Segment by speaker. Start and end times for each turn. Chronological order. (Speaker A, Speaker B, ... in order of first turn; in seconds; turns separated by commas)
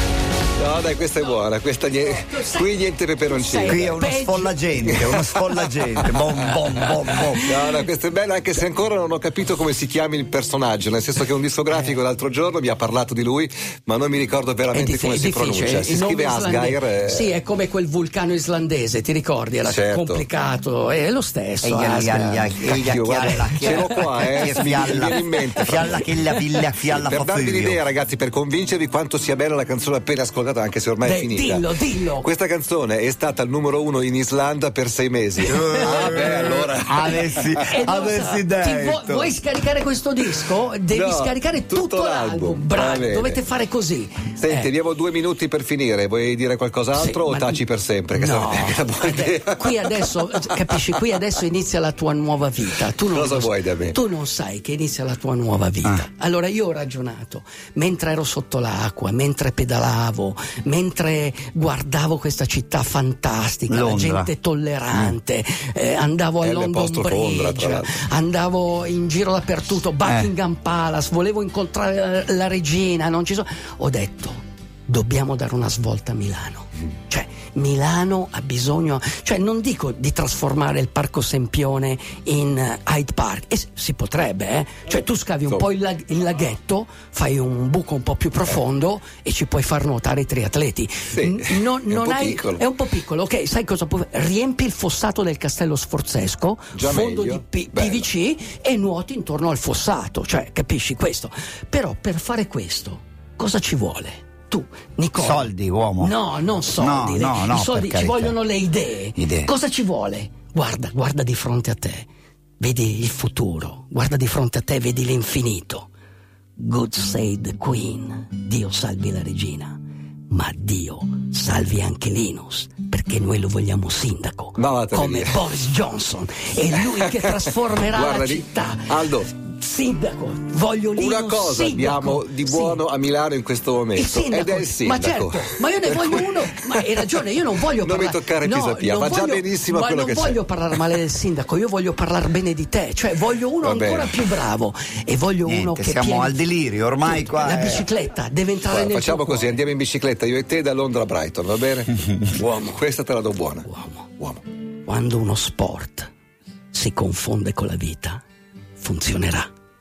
Speaker A: 0.6-4.0, Speaker B: 2.0-4.6, Speaker C: 3.6-7.5, Speaker A: 4.9-6.2, Speaker A: 6.8-17.3, Speaker B: 14.7-22.7, Speaker A: 19.6-20.2, Speaker C: 21.6-27.8, Speaker A: 22.6-26.1, Speaker B: 23.2-25.9, Speaker A: 26.8-37.7, Speaker B: 31.0-32.3, Speaker B: 35.5-36.5, Speaker C: 35.5-39.3, Speaker B: 37.5-44.7, Speaker A: 40.9-43.4, Speaker A: 44.4-50.1, Speaker B: 46.9-112.1, Speaker A: 50.7-51.0, Speaker A: 53.0-54.0, Speaker C: 63.7-64.3, Speaker A: 66.4-68.1, Speaker C: 70.0-70.3, Speaker A: 91.1-92.6, Speaker A: 96.7-98.1, Speaker C: 105.2-106.1, Speaker C: 106.8-108.3, Speaker C: 109.2-109.5, Speaker B: 112.6-115.9, Speaker B: 116.6-132.8, Speaker A: 124.5-125.5, Speaker A: 126.7-129.3, Speaker A: 130.9-137.0, Speaker B: 133.9-146.4, Speaker A: 137.8-140.9, Speaker A: 143.6-144.3, Speaker C: 145.4-147.9, Speaker B: 147.0-149.6, Speaker A: 148.6-153.7, Speaker B: 152.2-152.8, Speaker B: 153.6-154.1, Speaker B: 154.8-156.1, Speaker B: 156.7-158.2, Speaker B: 158.8-159.5